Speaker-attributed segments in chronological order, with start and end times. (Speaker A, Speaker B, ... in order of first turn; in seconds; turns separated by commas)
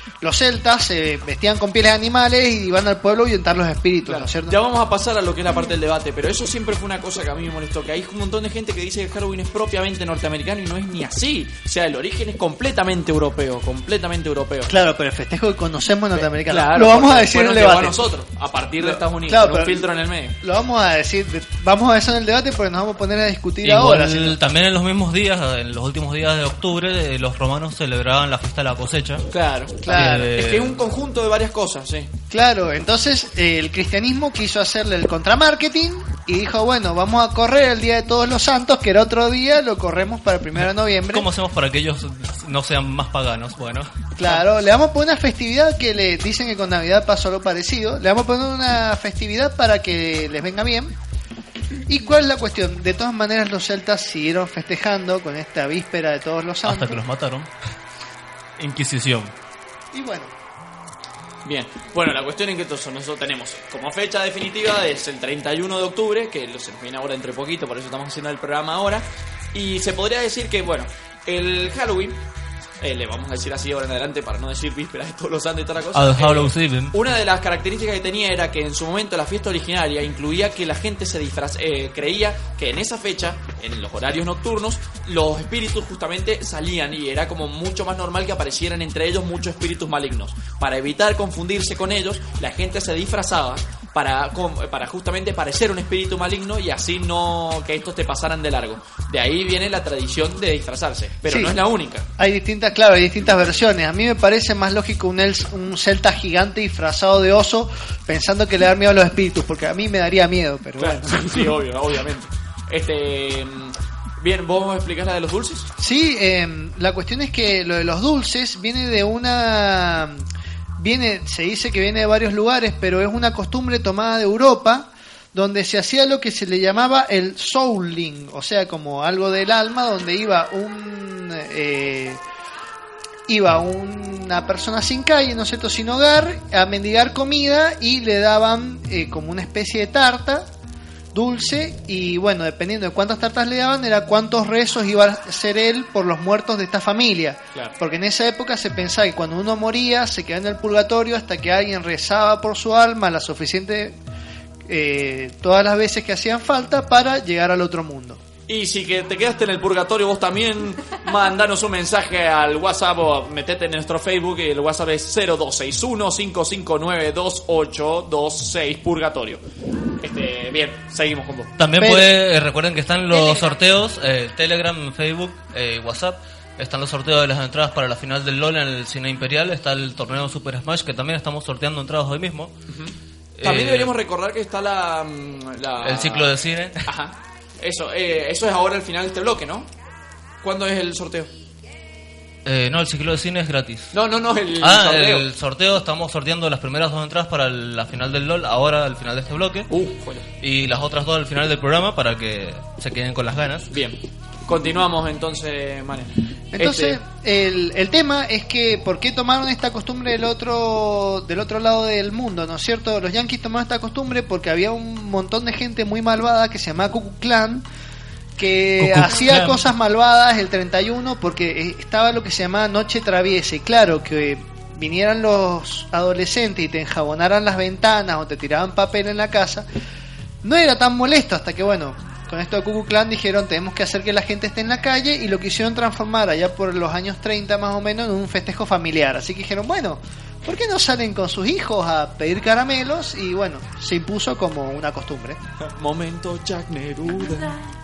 Speaker A: 0.2-4.5, Speaker B: 4.0-14.7, Speaker A: 14.7-17.9, Speaker B: 16.1-20.3, Speaker A: 18.8-19.8, Speaker A: 20.4-24.4, Speaker C: 23.6-29.2, Speaker B: 29.3-32.1, Speaker A: 29.9-30.3, Speaker C: 29.9-30.8, Speaker A: 32.3-41.3, Speaker C: 41.1-43.9, Speaker A: 44.2-51.0, Speaker A: 51.9-57.0, Speaker C: 56.6-57.5, Speaker C: 58.6-59.3, Speaker A: 59.9-60.3, Speaker B: 61.4-72.2, Speaker B: 72.8-102.0, Speaker C: 75.9-76.9, Speaker A: 101.3-101.5, Speaker A: 102.2-111.4, Speaker B: 110.8-115.7, Speaker A: 115.8-120.3, Speaker A: 120.8-132.2, Speaker A: 133.3-140.5, Speaker A: 141.1-153.9, Speaker A: 154.7-158.2, Speaker B: 158.5-169.4, Speaker B: 170.0-171.5, Speaker C: 171.6-182.5, Speaker A: 171.8-172.1, Speaker B: 182.7-186.3, Speaker C: 183.4-183.9, Speaker C: 185.8-186.8, Speaker B: 186.9-189.7, Speaker B: 190.4-191.3, Speaker C: 192.4-193.9, Speaker B: 193.9-195.3, Speaker C: 194.6-199.7, Speaker B: 199.7-200.2, Speaker C: 200.4-203.7, Speaker B: 203.7-207.0, Speaker A: 206.5-217.6, Speaker A: 218.4-229.7, Speaker C: 218.8-219.6, Speaker A: 230.4-245.4, Speaker B: 245.6-247.6